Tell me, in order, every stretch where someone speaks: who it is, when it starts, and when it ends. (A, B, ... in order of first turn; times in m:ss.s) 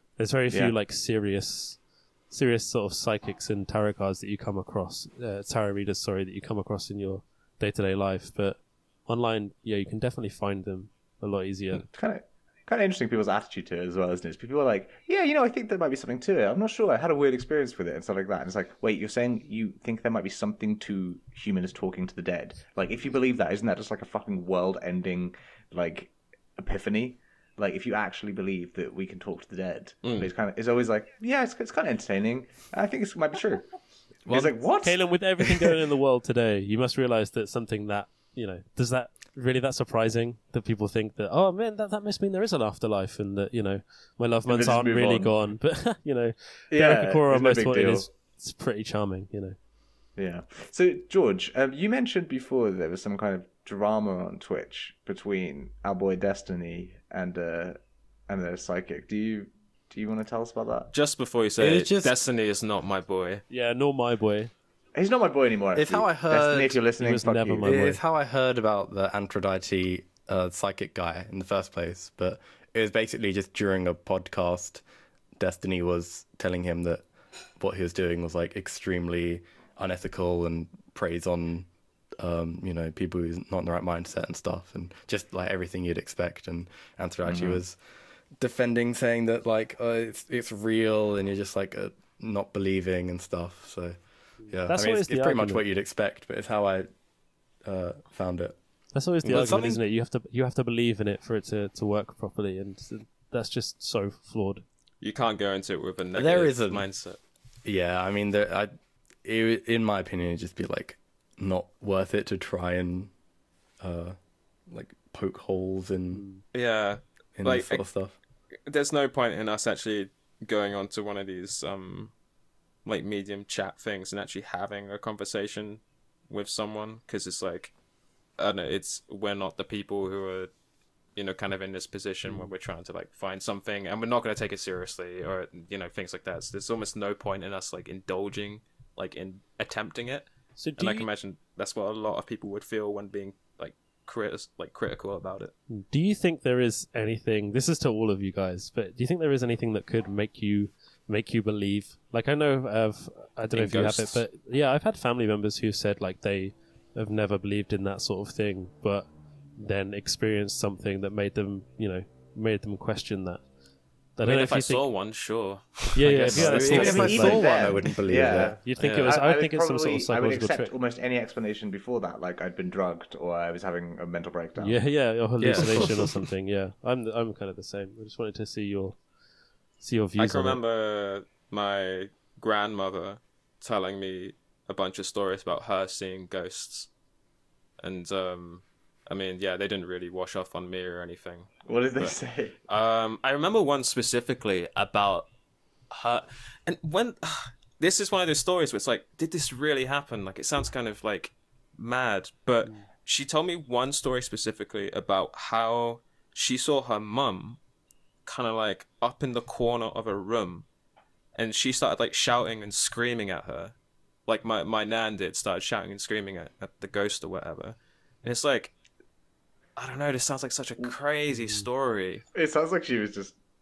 0:00.2-0:11.8 A
0:11.9-0:33.7 B
0:30.0-0:30.3 C
0:34.2-0:34.5 D
0:34.2-0:35.7 B
0:34.8-0:49.6 A
0:44.5-0:45.4 B
0:46.7-0:48.1 B
0:50.2-1:00.9 B
1:00.9-1:03.4 C
1:01.6-1:02.2 D
1:03.5-1:04.5 A
1:04.9-1:07.8 B
1:05.8-1:06.8 D
1:07.0-1:08.0 A
1:07.6-1:14.8 D
1:15.4-1:17.0 D
1:17.6-1:21.7 D
1:22.2-1:27.8 D
1:27.3-1:27.6 C
1:28.4-1:34.0 D
1:34.4-1:35.6 A
1:34.5-1:36.9 D
1:37.6-1:38.6 D
1:38.9-1:44.6 A
1:39.2-1:39.8 D
1:45.0-1:47.2 C
1:46.1-1:46.8 D
1:47.6-1:48.7 D
1:49.2-1:53.1 D
1:53.8-1:54.2 D
1:54.7-1:56.2 D
1:56.1-1:56.4 A
1:56.5-1:57.8 C
1:57.4-1:58.2 D
1:58.7-2:02.1 C
2:02.8-2:07.7 C
2:08.4-2:10.5 C
2:11.2-2:25.5 C
2:12.2-2:12.5 A
2:20.6-2:21.1 A
2:25.7-2:43.4 A
2:33.5-2:34.2 C
2:44.2-2:44.8 A
2:44.2-2:47.1 C
2:45.9-2:50.7 A
2:46.3-2:48.6 D
2:46.4-2:54.8 B
2:48.8-2:49.1 C
2:54.6-2:59.0 A
2:55.4-2:56.1 D
2:59.8-3:00.6 A
3:00.2-3:06.9 C
3:07.8-3:12.2 C
3:11.6-3:12.5 B
3:12.7-3:15.3 C
3:15.9-3:27.6 C
3:28.2-3:30.6 C
3:31.3-3:33.7 C
3:34.3-3:38.7 C
3:39.8-3:42.2 C
3:42.3-3:43.4 B